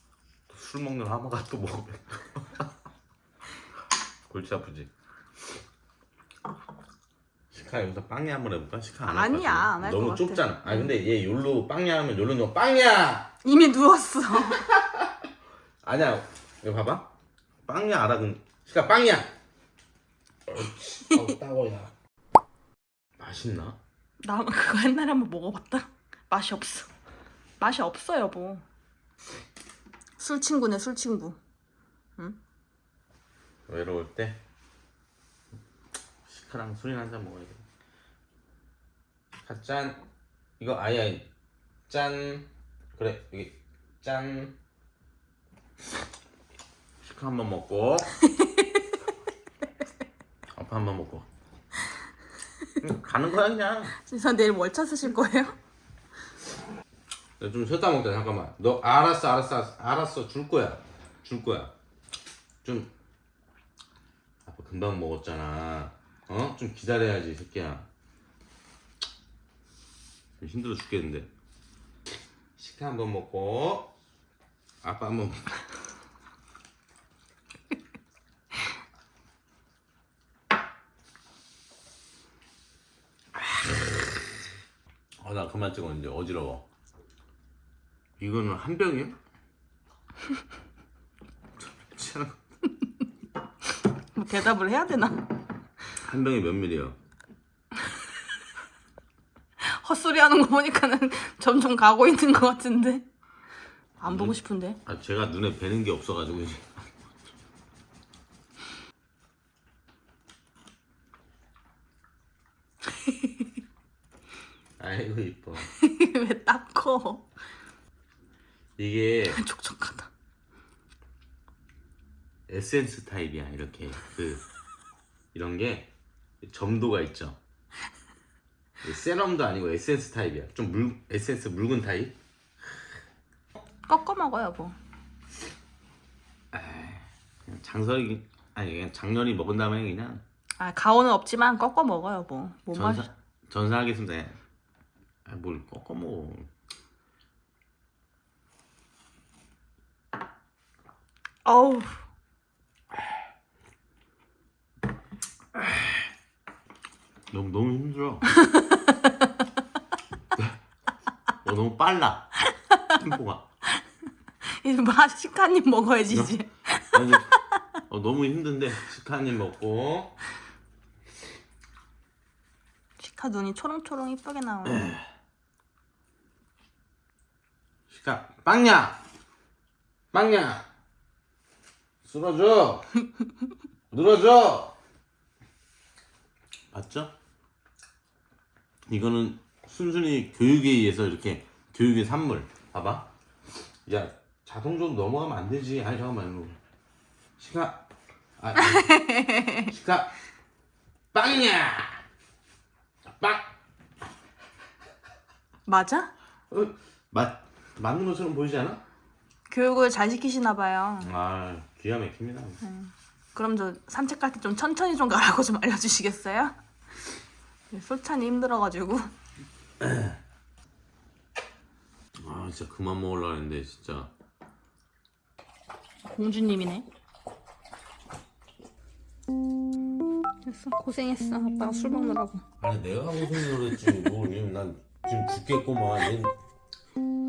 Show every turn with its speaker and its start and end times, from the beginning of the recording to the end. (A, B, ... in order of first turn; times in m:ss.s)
0:00.5-0:02.7 A
0:04.3-0:04.9 A
0:07.5-0:13.3 A
0:09.0-0:10.9 B
0:13.4-0:14.6 B
0:14.5-0:14.9 A
0:15.8-0:17.1 A
0:17.6-0:19.3 A
0:20.5-0:21.9 A
0:23.2-0:23.8 A
0:24.2-0:26.9 B
0:27.6-0:28.6 B
0:30.2-0:31.4 B
0:33.7-0:34.4 A
0:36.2-0:37.6 A
0:39.4-0:40.0 A
0:40.6-0:41.3 A
0:41.9-0:44.6 A
0:47.0-0:48.2 A
0:48.2-0:49.0 B
0:50.5-0:51.3 A
0:52.8-0:54.0 A
0:54.0-0:55.6 B
0:57.4-1:01.7 A
1:02.6-1:02.9 A
1:04.4-1:07.9 A
1:10.4-1:11.3 A
1:12.6-1:13.9 A
1:14.8-1:15.5 A
1:25.2-1:26.6 A
1:28.2-1:29.2 A
1:31.6-1:32.4 A
1:33.8-1:35.3 B
1:36.0-1:37.0 A
1:39.6-1:43.0 B
1:44.0-1:44.8 B
1:44.0-1:46.8 A
1:53.0-1:53.4 B
1:54.8-1:55.7 A
1:55.7-1:57.3 B
1:58.8-1:59.4 A
1:59.3-2:00.1 B
2:02.5-2:04.4 A
2:05.3-2:05.9 A
2:06.4-2:07.4 A
2:08.8-2:12.2 A
2:13.9-2:14.8 B
2:16.5-2:20.2 A
2:20.6-2:23.1 B
2:22.7-2:24.4 A
2:25.2-2:26.5 A
2:31.4-2:32.0 B
2:37.3-2:38.4 A
2:38.3-2:39.2 B
2:41.4-2:42.4 A
2:42.5-2:43.0 B
2:42.9-2:43.5 A
2:44.4-2:47.6 B
2:46.1-2:46.4 A
2:46.9-2:47.3 A
2:47.9-2:50.1 A
2:53.0-2:54.9 B
2:54.7-2:55.0 A
2:57.9-2:59.0 A
3:00.1-3:00.6 A
3:02.0-3:02.9 A
3:03.9-3:04.8 A
3:06.7-3:07.1 A
3:08.9-3:13.1 A
3:13.8-3:16.6 A
3:17.4-3:17.8 A
3:18.4-3:20.1 A
3:18.6-3:19.7 B
3:21.1-3:22.0 A
3:23.2-3:23.5 A
3:25.6-3:26.1 B
3:26.5-3:28.8 A
3:29.5-3:31.1 B
3:31.0-3:32.6 A
3:32.6-3:36.6 B
3:37.7-3:39.1 B
3:39.8-3:40.2 A
3:42.2-3:44.1 A
3:46.1-3:46.8 B
3:50.4-3:52.4 B
3:52.6-3:56.3 A